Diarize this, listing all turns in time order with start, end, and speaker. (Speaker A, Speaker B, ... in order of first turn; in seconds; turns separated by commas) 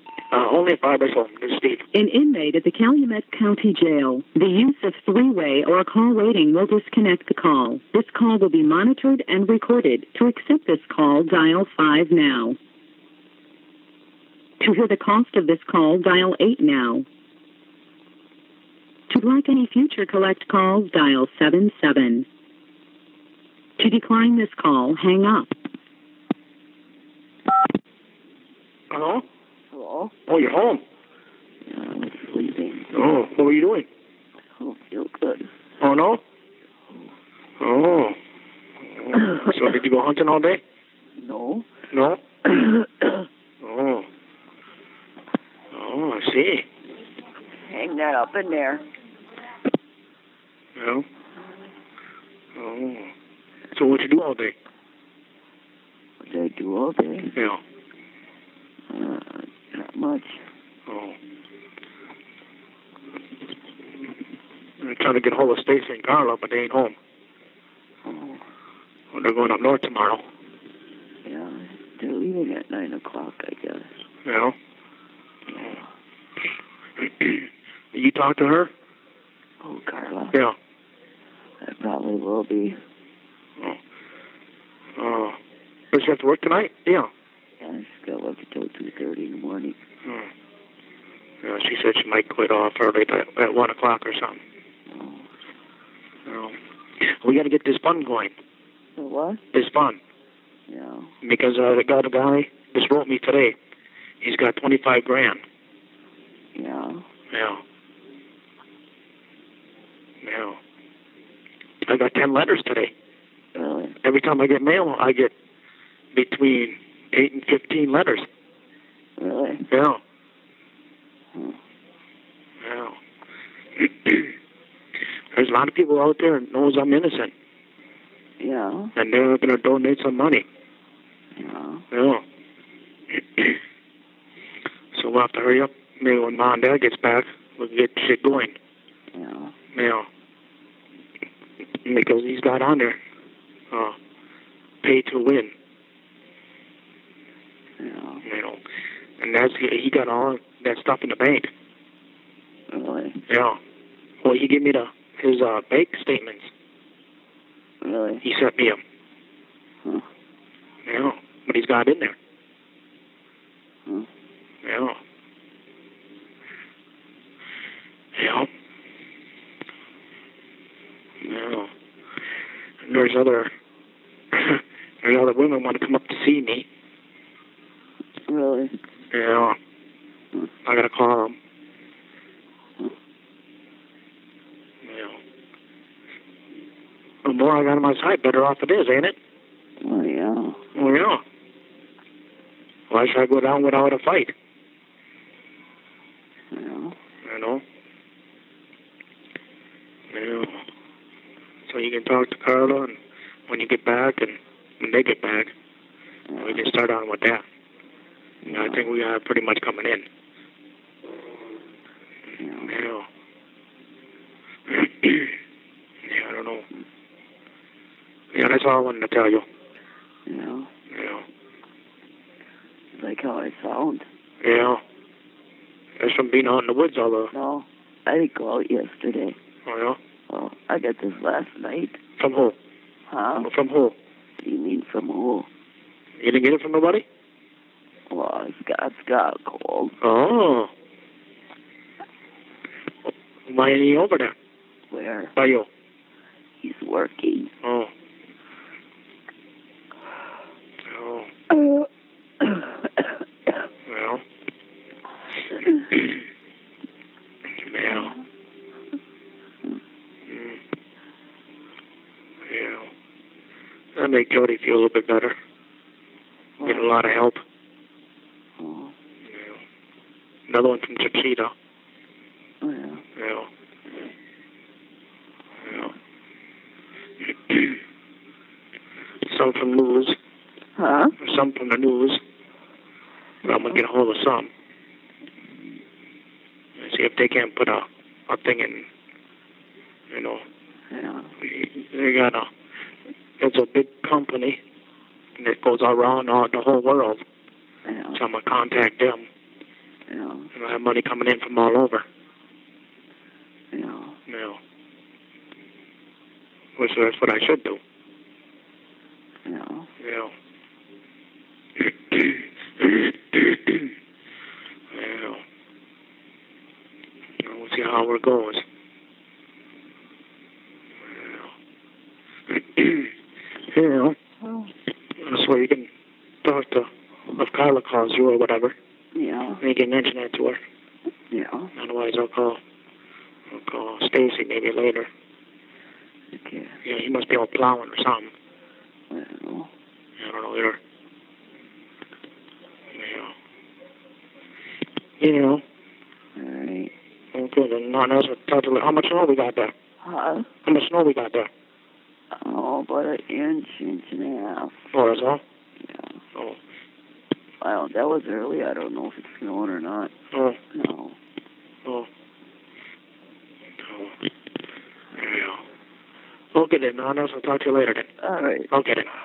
Speaker A: 0.3-1.8, Speaker B: 1.9-12.6, Speaker B: 14.6-17.0, Speaker B: 19.1-22.2, Speaker B: 23.8-25.5, Speaker A: 28.9-29.2, Speaker C: 29.7-30.1, Speaker A: 30.3-30.8, Speaker C: 31.7-32.9, Speaker A: 32.9-33.9, Speaker C: 34.6-35.5, Speaker A: 35.8-36.2, Speaker A: 37.6-38.1, Speaker A: 39.0-40.6, Speaker C: 41.2-41.7, Speaker A: 41.9-42.2, Speaker C: 42.5-43.1, Speaker A: 43.6-44.1, Speaker A: 45.7-46.6, Speaker C: 47.7-48.8, Speaker A: 50.8-51.0, Speaker A: 52.5-53.1, Speaker A: 53.7-54.5, Speaker C: 56.2-57.3, Speaker A: 57.3-57.6, Speaker C: 58.9-60.4, Speaker A: 60.9-61.1, Speaker A: 64.8-66.9, Speaker C: 68.0-68.4, Speaker A: 69.1-70.2, Speaker C: 71.2-73.9, Speaker A: 74.2-74.5, Speaker A: 77.0-78.7, Speaker C: 79.6-80.3, Speaker C: 81.6-82.8, Speaker A: 85.0-85.4, Speaker A: 85.9-87.1, Speaker C: 87.6-89.8, Speaker A: 91.4-94.4, Speaker C: 94.9-95.2, Speaker A: 96.3-98.3, Speaker C: 99.0-99.4, Speaker A: 99.5-100.0, Speaker C: 100.7-101.1, Speaker A: 101.2-103.5, Speaker A: 104.2-105.4, Speaker C: 106.5-107.0, Speaker A: 107.3-107.6, Speaker A: 110.2-110.6, Speaker A: 111.8-112.9, Speaker C: 113.5-114.0, Speaker A: 114.0-115.3, Speaker A: 116.1-118.2, Speaker C: 119.2-119.7, Speaker A: 119.7-120.0, Speaker A: 122.6-123.0, Speaker A: 123.8-124.3, Speaker A: 125.3-127.3, Speaker C: 128.4-128.9, Speaker A: 128.9-130.4, Speaker C: 131.3-131.8, Speaker A: 131.9-132.2, Speaker A: 134.9-138.6, Speaker C: 139.1-139.5, Speaker A: 139.7-140.1, Speaker A: 141.8-143.0, Speaker A: 144.8-145.5, Speaker C: 147.8-148.2, Speaker A: 148.2-148.6, Speaker A: 149.2-151.5, Speaker C: 152.7-153.2, Speaker A: 153.3-153.6, Speaker A: 154.2-156.5, Speaker C: 157.8-158.2, Speaker A: 158.2-158.8, Speaker A: 160.8-162.2, Speaker A: 164.6-165.0, Speaker A: 168.2-168.5, Speaker A: 171.2-171.7, Speaker A: 172.8-173.5, Speaker A: 174.3-176.7, Speaker C: 178.3-178.7, Speaker A: 179.1-179.6, Speaker A: 180.6-181.3, Speaker A: 184.8-185.2, Speaker A: 187.2-189.2, Speaker C: 189.8-190.6, Speaker A: 190.7-191.2, Speaker A: 192.9-194.3, Speaker C: 196.5-196.9, Speaker A: 197.2-197.6, Speaker A: 200.1-200.6, Speaker A: 201.7-202.9, Speaker A: 203.5-205.5, Speaker C: 206.3-206.6, Speaker A: 206.4-207.4, Speaker C: 208.4-208.9, Speaker A: 208.5-210.1, Speaker C: 212.4-212.7, Speaker A: 212.7-213.1, Speaker A: 214.7-215.3, Speaker A: 216.0-216.6, Speaker A: 218.3-219.4, Speaker C: 220.3-220.7, Speaker A: 220.9-221.2, Speaker C: 223.0-224.1, Speaker A: 224.4-224.8, Speaker A: 226.0-227.3, Speaker C: 227.3-229.4, Speaker A: 229.7-230.0, Speaker C: 230.3-232.0, Speaker A: 232.2-232.5, Speaker C: 233.1-233.5, Speaker A: 233.4-233.9, Speaker C: 234.4-235.5, Speaker A: 236.2-237.0, Speaker C: 238.1-239.9, Speaker A: 240.0-240.7, Speaker A: 243.1-244.3, Speaker C: 244.9-245.3, Speaker A: 245.3-245.7, Speaker C: 246.6-247.5, Speaker A: 247.6-247.9, Speaker A: 250.9-251.3, Speaker C: 252.4-252.7, Speaker A: 253.9-254.2, Speaker A: 257.6-258.1, Speaker A: 260.3-260.6, Speaker A: 262.5-262.9, Speaker A: 263.9-265.3, Speaker C: 266.6-266.9, Speaker A: 266.6-267.4, Speaker C: 268.6-268.9, Speaker A: 270.5-271.5, Speaker C: 272.6-273.0, Speaker A: 273.2-273.5, Speaker A: 279.3-280.1, Speaker C: 280.8-281.1, Speaker A: 281.2-282.2, Speaker A: 283.4-284.5, Speaker A: 286.8-288.9, Speaker A: 290.1-290.4, Speaker C: 290.9-291.3, Speaker A: 291.4-292.5, Speaker A: 293.4-294.6, Speaker A: 295.4-297.2, Speaker C: 297.9-298.2, Speaker A: 298.1-299.2, Speaker C: 300.1-300.5, Speaker A: 300.5-302.0, Speaker C: 303.7-304.1, Speaker A: 304.3-304.6, Speaker A: 306.8-307.8, Speaker C: 309.4-309.9, Speaker A: 310.0-310.3, Speaker A: 312.1-313.9, Speaker A: 314.9-315.4, Speaker A: 317.4-318.6, Speaker A: 322.5-323.1, Speaker A: 323.7-324.1, Speaker A: 325.2-325.9, Speaker A: 326.4-328.8, Speaker C: 329.1-329.6, Speaker A: 329.6-330.6, Speaker C: 331.3-331.7, Speaker A: 331.7-332.6, Speaker A: 333.5-335.1, Speaker C: 336.3-336.8, Speaker A: 336.8-338.3, Speaker C: 339.1-339.7, Speaker A: 340.2-340.8, Speaker A: 342.9-343.3, Speaker A: 345.2-345.6, Speaker C: 346.4-346.9, Speaker A: 347.3-349.7, Speaker C: 350.0-350.5, Speaker A: 350.6-351.5, Speaker C: 352.3-354.8, Speaker A: 354.9-355.4, Speaker C: 355.8-356.1, Speaker C: 357.6-360.1, Speaker A: 360.3-360.6, Speaker C: 360.7-361.2, Speaker A: 365.2-365.6, Speaker A: 366.5-368.1, Speaker C: 368.2-368.7, Speaker A: 368.7-369.1